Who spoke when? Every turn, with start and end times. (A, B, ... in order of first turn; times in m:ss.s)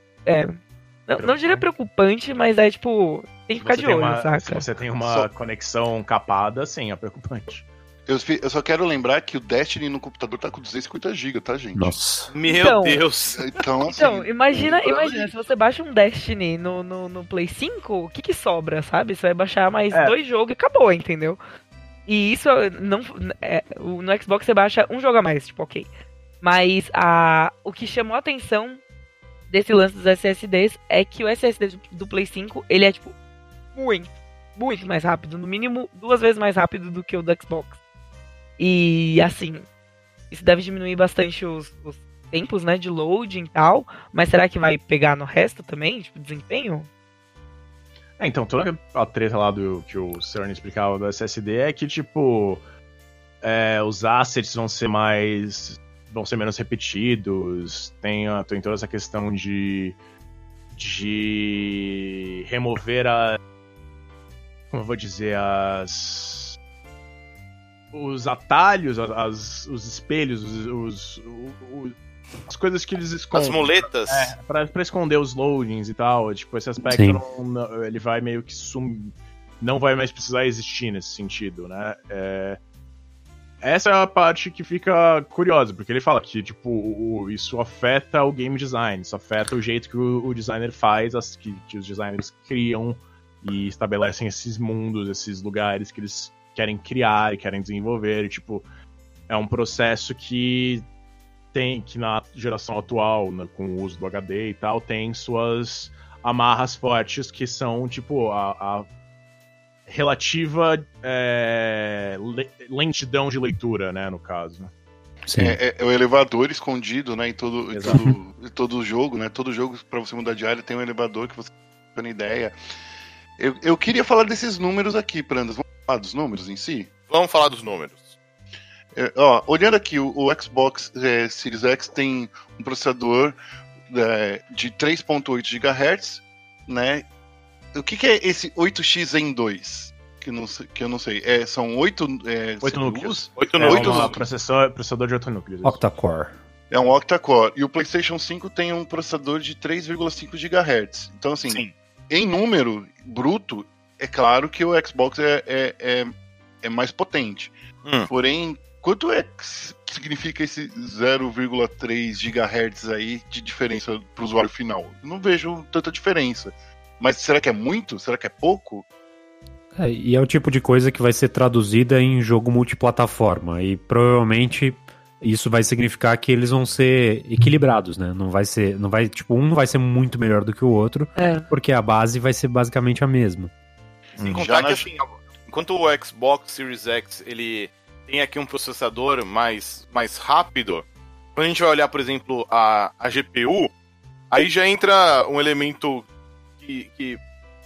0:00.3-0:04.6 A
0:01.2-0:01.6 B
0:03.6-0:07.6 B
0:08.1-0:11.9 C
0:11.8-0:12.3 D
0:12.3-0:13.4 E
0:12.4-0:13.0 A
0:13.3-0:15.5 C
0:13.9-0:21.4 A
0:22.1-0:25.9 A
0:26.4-0:28.8 A
0:29.5-0:33.1 A
0:33.7-0:37.8 A
0:38.6-0:39.7 A
0:40.3-0:46.9 A
0:48.2-0:52.6 B
0:53.4-1:00.0 B
1:00.7-1:03.4 B
1:04.7-1:06.6 B
1:07.9-1:12.0 B
1:12.5-1:22.6 B
1:13.3-1:14.3 E
1:16.9-1:17.2 D
1:23.6-1:38.6 B
1:39.3-1:40.9 B
1:41.5-1:48.9 B
1:49.9-1:54.7 B
1:55.3-1:55.6 D
1:55.4-2:02.6 C
1:57.7-1:58.1 B
2:03.4-2:06.9 C
2:07.1-2:08.1 E
2:09.0-2:13.4 C
2:13.9-2:17.0 C
2:17.7-2:24.3 C
2:22.6-2:25.8 B
2:23.4-2:24.2 E
2:25.6-2:26.3 D
2:26.7-2:37.5 C
2:37.8-2:38.1 E
2:38.1-2:48.8 C
2:49.8-3:03.5 D
3:01.2-3:01.5 A
3:04.3-3:04.9 C
3:04.3-3:13.7 E
3:14.3-3:16.1 E
3:16.6-3:17.2 E